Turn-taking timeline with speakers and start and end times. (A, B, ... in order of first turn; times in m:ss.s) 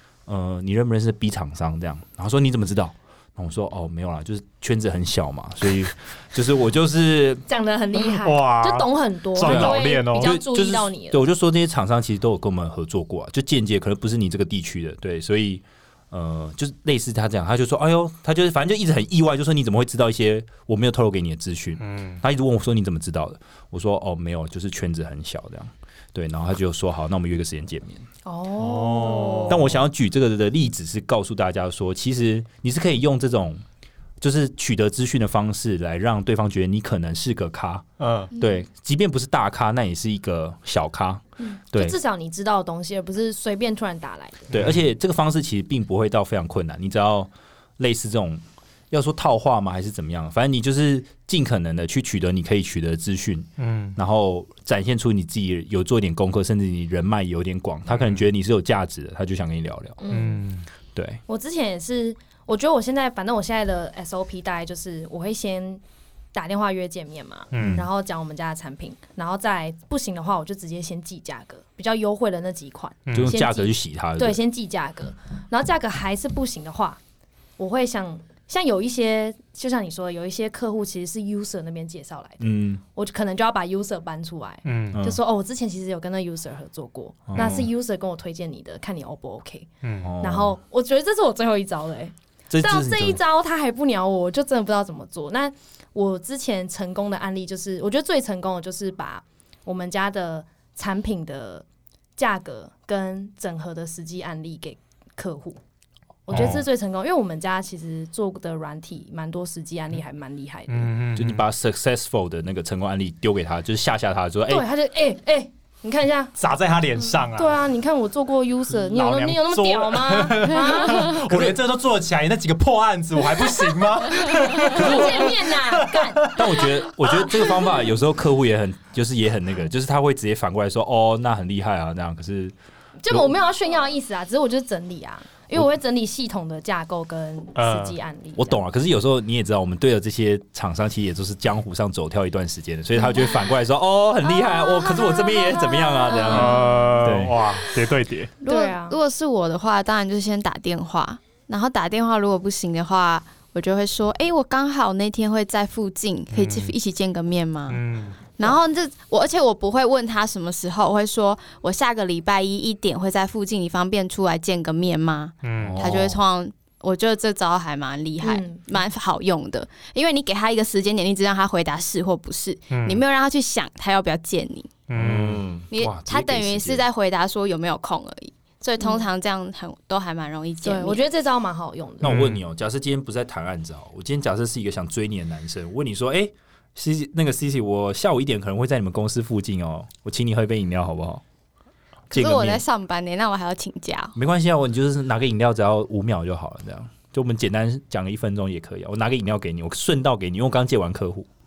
0:00.3-0:07.4 A
0:07.5-0:11.2 B
0:07.9-0:10.3 C
0:09.4-0:28.0 A
0:21.8-0:22.2 C
0:28.2-0:29.6 B
0:28.6-0:29.8 C
0:29.5-0:33.6 A
0:34.2-0:37.8 A
0:38.0-0:38.3 C
0:38.4-0:42.0 A
0:41.4-0:44.5 B
0:44.5-1:00.0 A
0:53.6-0:54.0 C
0:57.9-0:58.3 C
1:00.0-1:00.5 B
1:00.1-1:00.7 C
1:01.0-1:01.2 A
1:01.3-1:05.8 B
1:06.3-1:17.0 B
1:07.5-1:07.8 C
1:07.6-1:07.9 A
1:13.1-1:13.3 C
1:13.1-1:14.4 A
1:17.6-1:29.7 B
1:22.4-1:22.8 A
1:24.6-1:25.0 C
1:24.9-1:25.2 A
1:27.3-1:27.7 A
1:29.8-1:30.1 C
1:30.0-1:30.6 A
1:30.2-1:41.6 B
1:32.5-1:33.2 A
1:42.2-1:45.6 B
1:46.3-1:50.9 B
1:46.3-1:46.6 A
1:50.7-1:51.5 C
1:51.2-1:54.7 A
1:54.5-1:56.4 B
1:56.4-1:57.6 C
1:57.2-2:01.2 B
1:58.7-2:06.4 C
2:01.3-2:01.6 A
2:04.6-2:06.6 B
2:06.3-2:12.6 A
2:07.1-2:07.5 C
2:13.0-2:18.6 B
2:17.6-2:18.0 C
2:18.4-2:27.4 A
2:24.3-2:26.9 B
2:26.0-2:26.6 D
2:26.3-2:28.4 C
2:28.4-2:37.8 D
2:28.4-2:29.0 B
2:36.3-2:36.8 C
2:37.7-2:38.3 C
2:38.3-2:54.8 D
2:45.4-2:45.9 C
2:45.6-2:46.2 A
2:48.2-2:48.9 B
2:52.7-2:53.0 C
2:54.9-2:55.5 C
2:54.9-2:56.8 A
2:55.7-3:01.0 D
2:58.8-2:59.1 B
3:00.6-3:02.2 B
3:02.0-3:11.2 A
3:02.0-3:02.4 C
3:12.1-3:12.6 A
3:12.1-3:14.2 D
3:14.2-3:21.3 A